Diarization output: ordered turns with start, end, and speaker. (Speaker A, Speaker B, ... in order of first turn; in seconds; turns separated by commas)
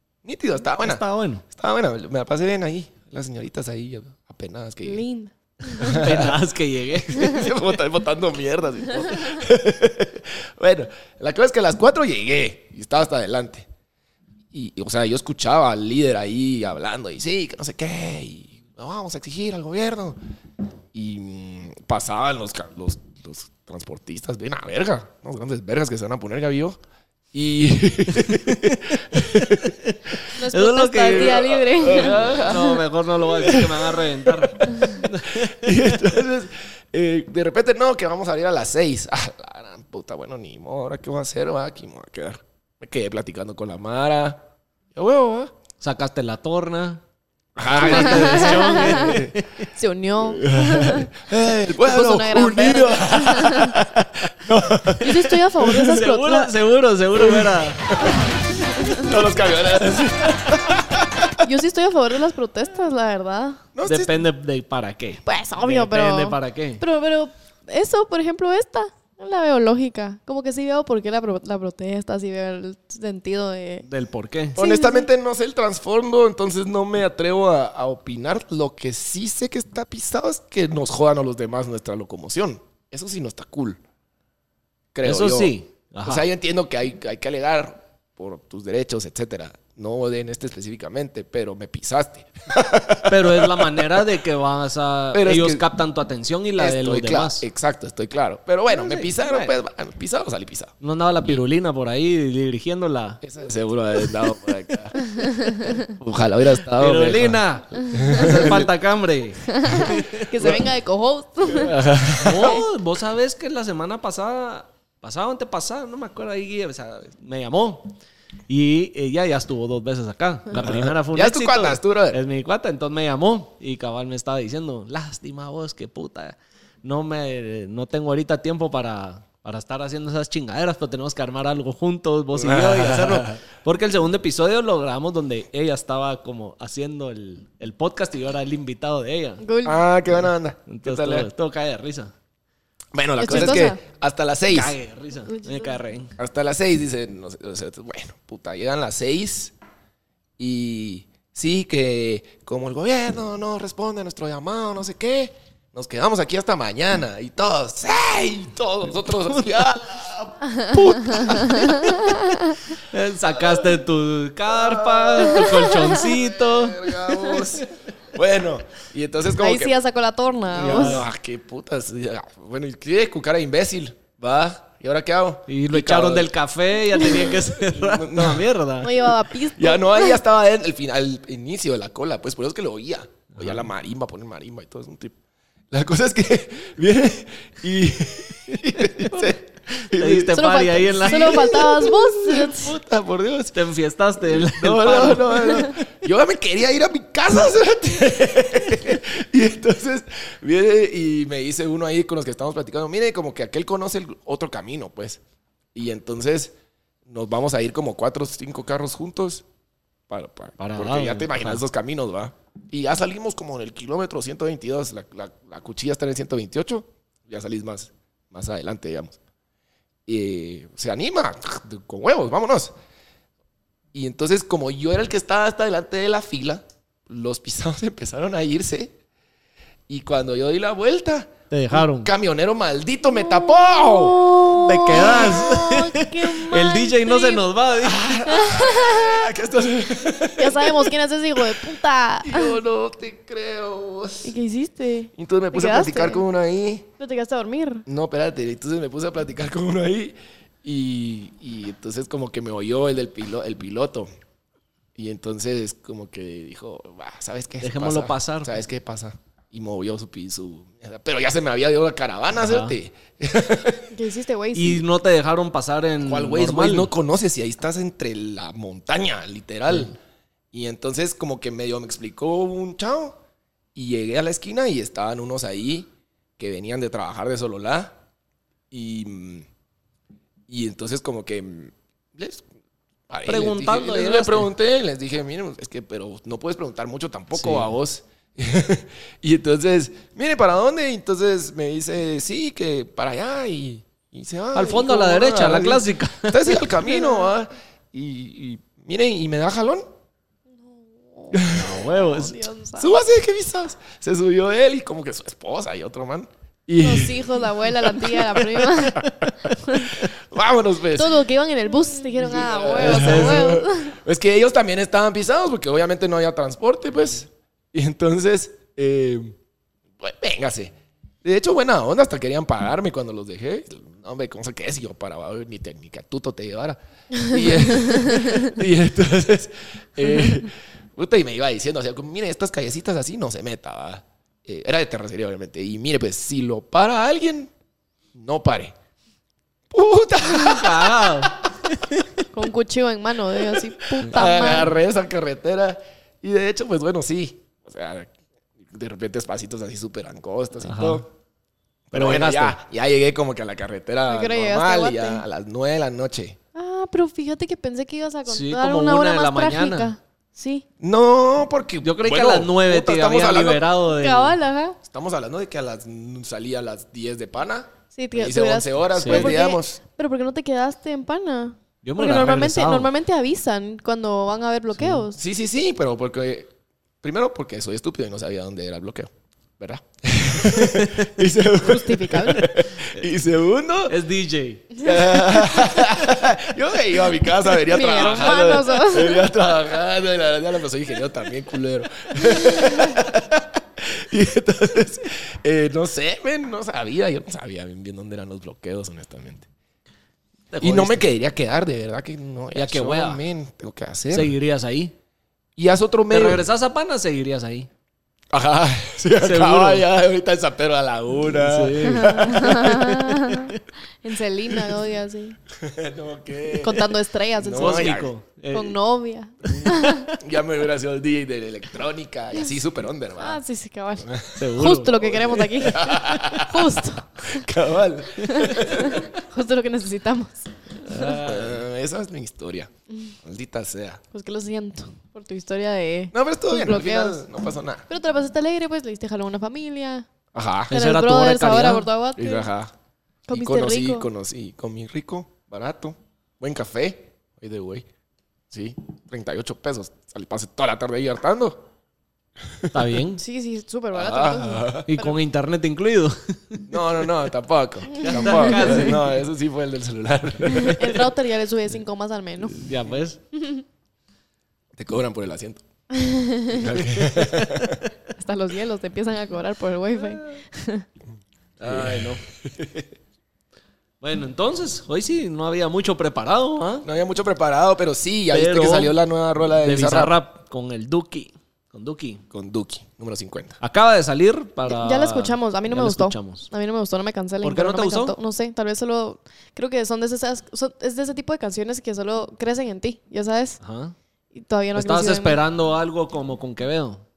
Speaker A: 0.2-5.0, Speaker B: 0.8-1.4, Speaker C: 4.8-6.0, Speaker B: 5.7-7.5, Speaker A: 5.8-6.4, Speaker A: 7.1-13.7, Speaker A: 14.5-20.2, Speaker A: 20.9-26.8, Speaker A: 27.3-30.3, Speaker B: 28.2-35.9, Speaker C: 30.4-32.8, Speaker A: 31.1-32.8, Speaker A: 33.3-45.5, Speaker B: 45.8-47.0, Speaker A: 47.6-49.4, Speaker B: 47.7-49.7, Speaker C: 47.9-51.1, Speaker A: 50.3-56.0, Speaker C: 51.8-53.8, Speaker C: 55.0-56.5, Speaker B: 55.8-58.1, Speaker A: 57.1-58.3, Speaker C: 58.8-59.2, Speaker A: 58.8-61.5, Speaker C: 61.4-63.6, Speaker A: 63.8-64.2, Speaker B: 63.9-66.8, Speaker C: 65.3-73.9, Speaker B: 73.8-74.6, Speaker A: 74.5-83.8, Speaker C: 74.6-75.1, Speaker A: 84.9-85.5, Speaker B: 85.0-86.3, Speaker A: 86.0-94.1, Speaker B: 93.1-97.5, Speaker A: 95.1-95.7, Speaker A: 96.6-100.7, Speaker B: 98.7-99.5, Speaker B: 100.8-103.2, Speaker A: 103.2-108.7, Speaker B: 106.7-110.3, Speaker C: 109.5-111.8, Speaker A: 109.7-110.7, Speaker A: 111.5-112.7, Speaker B: 112.2-118.0, Speaker B: 118.5-139.4, Speaker A: 120.5-122.2, Speaker A: 132.3-133.4, Speaker C: 139.4-139.8, Speaker A: 139.6-141.3, Speaker B: 140.7-142.1, Speaker A: 142.9-144.8, Speaker C: 143.2-143.8, Speaker B: 143.3-143.6, Speaker B: 144.5-146.2, Speaker C: 145.3-145.7, Speaker A: 146.2-149.5, Speaker A: 150.4-162.1, Speaker B: 159.3-159.7, Speaker C: 160.6-162.6, Speaker B: 161.1-161.7, Speaker B: 162.8-167.0, Speaker A: 163.3-163.6, Speaker A: 164.5-169.8, Speaker C: 165.4-165.9, Speaker C: 169.4-171.1, Speaker A: 170.5-176.3, Speaker B: 170.6-171.1, Speaker B: 175.5-179.0, Speaker A: 176.9-178.5, Speaker C: 178.8-180.2, Speaker A: 179.6-185.2, Speaker B: 183.4-183.7, Speaker A: 185.7-193.6, Speaker B: 189.1-191.7, Speaker C: 190.3-192.8, Speaker B: 193.5-195.7, Speaker A: 194.2-205.2, Speaker A: 205.8-206.5, Speaker A: 207.1-209.4, Speaker A: 210.1-219.2, Speaker B: 210.6-211.6, Speaker A: 220.1-222.7, Speaker A: 223.9-228.9, Speaker A: 229.9-235.5, Speaker B: 231.5-232.1, Speaker C: 233.2-237.4, Speaker B: 234.5-238.2, Speaker A: 237.8-244.3, Speaker C: 238.3-239.3, Speaker C: 240.4-242.6, Speaker C: 244.2-246.2, Speaker A: 245.2-246.9, Speaker C: 247.0-247.8, Speaker A: 247.9-254.1, Speaker A: 255.0-263.9, Speaker B: 257.6-258.5, Speaker B: 262.4-262.8, Speaker C: 263.9-264.8, Speaker B: 264.5-266.9, Speaker A: 266.0-269.9, Speaker A: 270.5-273.2, Speaker A: 273.8-278.0, Speaker A: 278.7-279.5, Speaker A: 280.5-282.5, Speaker A: 283.1-299.9, Speaker B: 283.2-284.5, Speaker B: 287.3-287.7, Speaker B: 294.5-296.7, Speaker C: 296.8-297.3, Speaker C: 300.5-303.0, Speaker A: 301.3-301.7, Speaker B: 301.5-302.5, Speaker A: 302.8-311.3, Speaker C: 306.8-310.0, Speaker C: 310.9-314.0, Speaker A: 312.2-319.4, Speaker B: 312.8-313.6, Speaker A: 320.0-337.5, Speaker A: 338.1-338.8, Speaker A: 339.7-341.4, Speaker B: 340.3-342.1, Speaker C: 342.3-344.7, Speaker A: 343.5-351.1, Speaker B: 350.6-351.0, Speaker A: 351.9-356.4, Speaker B: 351.9-352.6, Speaker C: 354.1-355.2, Speaker C: 356.6-360.6, Speaker B: 358.3-359.9, Speaker A: 360.8-363.6, Speaker B: 361.8-364.4, Speaker C: 363.9-364.8, Speaker A: 364.8-369.8, Speaker C: 367.9-375.2, Speaker B: 369.0-369.3, Speaker B: 371.8-372.9, Speaker B: 374.8-375.1, Speaker A: 375.1-376.5, Speaker A: 377.0-384.0, Speaker B: 380.5-381.1, Speaker C: 381.6-382.5, Speaker B: 383.9-384.8, Speaker A: 384.8-399.5, Speaker C: 387.6-389.2, Speaker B: 400.5-401.1, Speaker A: 400.6-404.4, Speaker B: 402.5-403.2, Speaker B: 404.1-404.9, Speaker A: 405.6-406.5, Speaker B: 406.1-407.7, Speaker A: 408.3-413.1, Speaker B: 409.2-409.9, Speaker B: 411.3-413.6, Speaker C: 411.8-415.4, Speaker A: 415.5-418.1, Speaker C: 416.5-420.1, Speaker B: 417.6-418.8, Speaker B: 419.5-420.0, Speaker A: 419.5-423.4, Speaker C: 423.2-427.4, Speaker A: 424.0-424.4, Speaker B: 424.4-425.0, Speaker A: 425.0-429.1, Speaker C: 428.2-430.5, Speaker B: 430.8-431.6, Speaker A: 430.9-432.7, Speaker C: 432.9-433.1, Speaker A: 433.2-434.0, Speaker C: 434.1-437.2, Speaker A: 436.1-437.9, Speaker C: 437.9-440.1, Speaker A: 440.3-440.7, Speaker B: 440.7-441.9, Speaker C: 440.7-442.5, Speaker A: 442.2-442.7, Speaker C: 443.3-444.1, Speaker A: 443.3-447.9, Speaker A: 448.5-451.7, Speaker A: 452.4-452.8, Speaker B: 452.7-453.2, Speaker C: 453.2-455.2, Speaker A: 453.9-454.9, Speaker B: 454.9-456.6, Speaker A: 456.7-461.1, Speaker C: 458.0-458.8, Speaker B: 458.0-459.1, Speaker C: 460.5-462.7, Speaker B: 462.5-463.2, Speaker C: 463.3-463.6, Speaker A: 464.8-465.6, Speaker C: 465.9-466.7, Speaker A: 466.5-467.8, Speaker B: 467.0-467.7, Speaker C: 468.2-470.9, Speaker B: 471.6-472.2, Speaker A: 471.6-472.9, Speaker B: 474.0-476.9, Speaker A: 476.8-480.1, Speaker B: 478.3-479.0, Speaker B: 479.6-482.2, Speaker A: 482.3-483.6, Speaker B: 483.6-486.5, Speaker C: 484.6-493.6, Speaker B: 487.4-488.2, Speaker B: 493.6-494.0, Speaker C: 494.3-495.4, Speaker B: 494.8-497.0